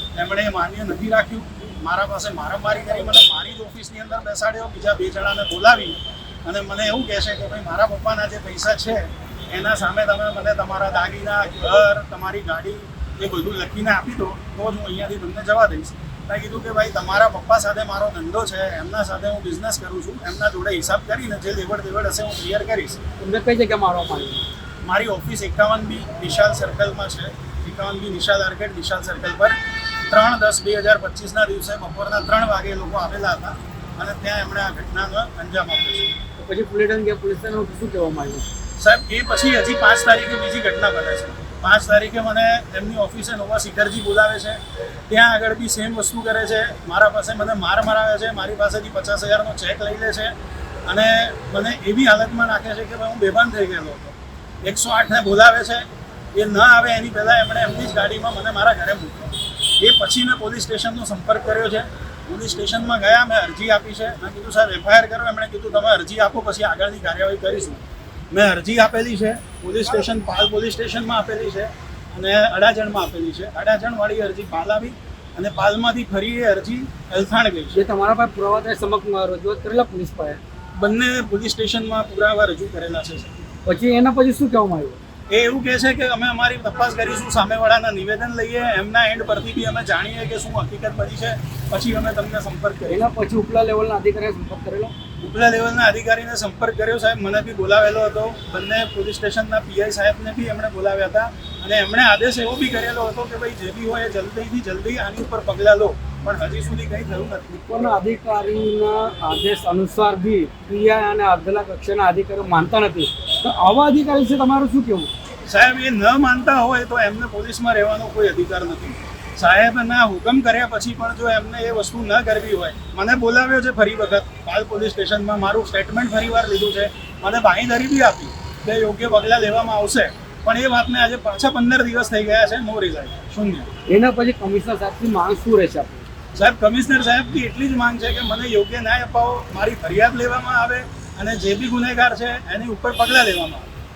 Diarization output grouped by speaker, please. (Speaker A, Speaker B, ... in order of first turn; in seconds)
Speaker A: 0.1-23.0, 24.8-36.2, 38.8-50.4, 50.9-77.8, 80.8-83.3, 85.3-93.1, 95.2-107.6, 115.5-133.7, 136.3-143.7
Speaker B: 23.2-24.4, 36.4-38.5, 77.7-80.4, 83.7-85.0, 92.9-95.0, 107.7-115.1, 133.9-136.1